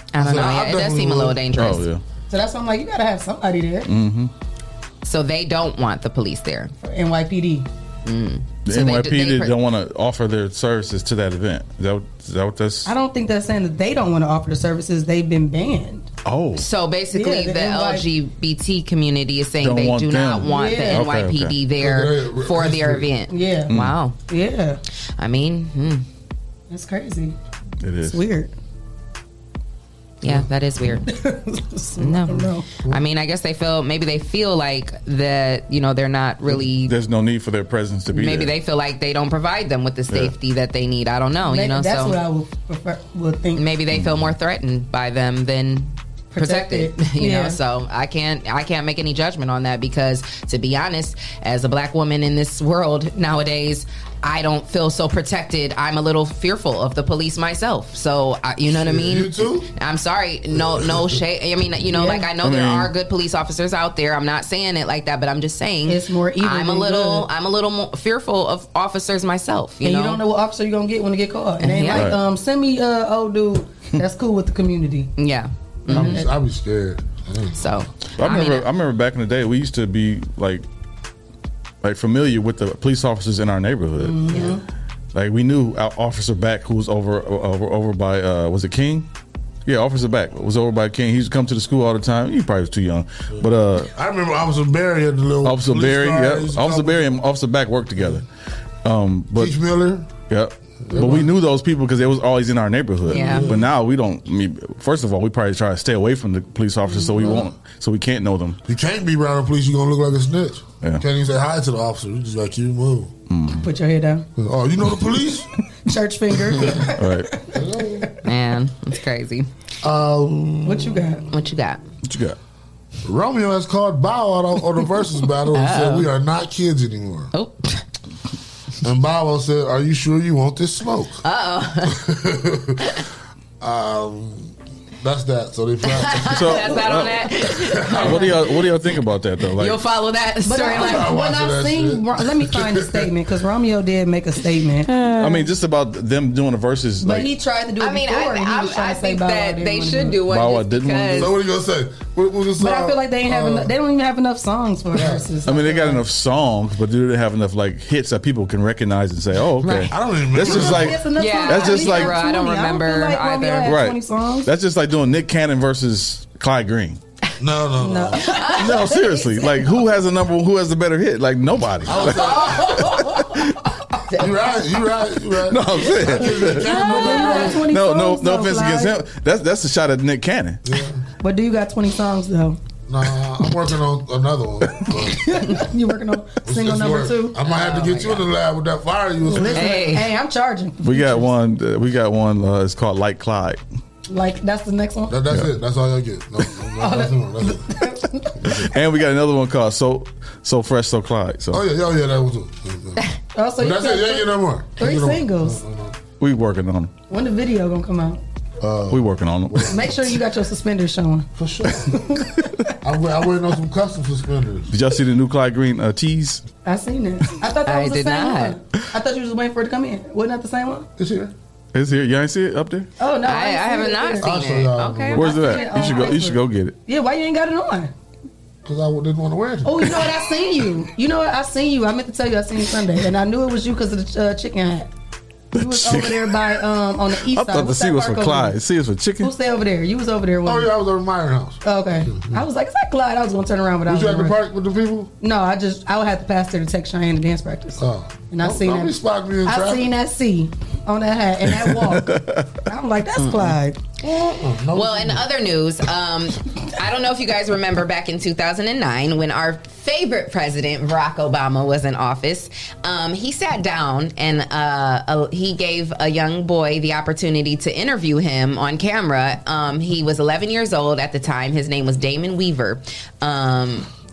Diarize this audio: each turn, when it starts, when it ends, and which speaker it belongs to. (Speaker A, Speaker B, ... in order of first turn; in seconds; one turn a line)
Speaker A: 0.1-1.9
Speaker B: 0.1-1.4
Speaker C: 1.6-2.0
Speaker D: 2.3-3.9
Speaker C: 3.9-4.3
Speaker A: 5.0-6.7
Speaker D: 6.8-7.7
Speaker A: 8.1-9.6
Speaker C: 8.7-12.9
Speaker D: 12.9-16.1
Speaker C: 16.2-16.7
Speaker A: 16.6-24.2
Speaker D: 17.1-18.1
Speaker C: 19.6-21.6
Speaker D: 20.5-21.1
Speaker B: 21.8-23.1
Speaker D: 23.3-23.7
Speaker C: 23.7-24.0
Speaker D: 24.3-24.8
Speaker A: 25.2-26.1
Speaker D: 26.7-27.4
Speaker C: 27.8-28.2
Speaker D: 28.0-28.5
Speaker A: 30.2-31.1
Speaker D: 31.1-32.7
Speaker A: 32.0-36.9
Speaker C: 36.8-38.5
Speaker A: 38.1-42.2
Speaker D: 41.5-43.6
Speaker A: 43.6-70.2
Speaker C: 43.9-44.3
Speaker D: 46.3-47.6
Speaker B: 58.7-59.7
Speaker B: 60.5-61.2
Speaker D: 61.9-62.3
Speaker C: 62.4-62.9
Speaker D: 65.9-67.3
Speaker D: 69.8-75.1
Speaker A: 71.6-72.1
Speaker C: 71.9-72.2
Speaker A: 75.2-76.2
Speaker D: 75.9-76.3
Speaker B: 75.9-77.9
Speaker A: 77.6-78.7
Speaker C: 78.2-80.7
Speaker C: 81.8-84.5
Speaker D: 84.0-84.6
Speaker C: 85.1-89.1
Speaker C: 89.7-93.9
Speaker B: 93.4-97.1
Speaker C: 95.4-98.2
Speaker B: 98.0-98.2
Speaker C: 98.8-99.5
Speaker B: 99.3-100.1
Speaker C: 100.3-108.6
Speaker B: 100.9-101.3
Speaker A: 103.1-103.6
Speaker B: 103.1-103.7
Speaker D: 106.9-107.4
Speaker B: 108.7-113.1
Speaker C: 113.3-113.7
Speaker D: 113.5-114.3
Speaker B: 114.4-115.5
Speaker D: 115.8-118.1
Speaker C: 117.0-117.3
Speaker B: 117.5-118.1
Speaker A: 118.2-119.5
Speaker B: 119.8-121.1
Speaker D: 120.7-121.2
Speaker A: 121.3-121.8
Speaker C: 122.1-122.4
Speaker B: 123.0-127.3
Speaker A: 125.5-126.1
Speaker A: 127.3-127.8
Speaker B: 128.8-131.2
Speaker A: 131.2-132.0
Speaker B: 131.8-132.9
Speaker B: 133.6-138.2
Speaker A: 135.8-138.6
Speaker C: 136.3-137.2
Speaker C: 138.0-139.8
Speaker A: 139.6-141.1
Speaker D: 140.4-144.9
Speaker B: 140.6-143.2
Speaker A: 144.9-145.5
Speaker C: 145.1-147.3
Speaker D: 147.0-150.2
Speaker A: 147.8-151.3
Speaker C: 150.3-151.3
Speaker B: 151.2-153.7
Speaker D: 152.6-156.0
Speaker B: 154.9-155.3
Speaker C: 155.4-162.2
Speaker B: 159.6-161.0
Speaker D: 160.4-164.5
Speaker A: 161.2-163.8
Speaker C: 163.6-167.0
Speaker B: 167.4-168.4
Speaker D: 167.8-169.5
Speaker A: 168.2-169.0
Speaker C: 168.6-173.6
Speaker B: 171.8-172.8
Speaker D: 172.1-173.4
Speaker A: 174.1-174.5
Speaker B: 174.2-177.6
Speaker C: 175.5-180.6
Speaker D: 176.3-179.0
Speaker A: 176.9-177.6
Speaker B: 180.7-181.0
Speaker D: 181.2-182.6
Speaker B: 182.9-185.2
Speaker D: 185.1-187.4
Speaker B: 186.4-189.9
Speaker A: 187.4-188.3
Speaker D: 189.2-191.3
Speaker A: 189.4-190.1
Speaker C: 190.8-193.6
Speaker D: 194.1-195.2
Speaker B: 195.1-197.7
Speaker D: 196.8-198.3
Speaker C: 198.6-201.6
Speaker B: 201.5-203.0
Speaker D: 203.3-205.6
Speaker B: 203.6-206.0
Speaker C: 206.2-206.9
Speaker D: 207.1-208.2
Speaker B: 208.6-209.9
Speaker C: 208.9-209.8
Speaker D: 209.7-211.3
Speaker B: 211.4-212.0
Speaker D: 211.8-212.6
Speaker B: 212.8-214.7
Speaker C: 214.7-216.4
Speaker D: 216.7-220.9
Speaker A: 217.7-218.6
Speaker B: 221.0-221.3
Speaker C: 221.7-222.9
Speaker D: 223.0-224.3
Speaker A: 223.2-226.0
Speaker B: 224.2-225.4
Speaker C: 225.2-226.8
Speaker D: 225.2-227.9
Speaker B: 228.7-230.0
Speaker D: 229.7-234.9
Speaker C: 235.6-236.4
Speaker D: 235.6-238.6
Speaker C: 237.2-239.3
Speaker D: 239.2-240.7
Speaker B: 240.4-242.4
Speaker D: 241.6-244.4
Speaker B: 243.9-245.1
Speaker D: 245.2-253.8
Speaker B: 247.8-249.9
Speaker C: 251.6-252.5
Speaker A: 253.2-253.6
Speaker B: 254.0-255.2
Speaker A: 254.7-273.9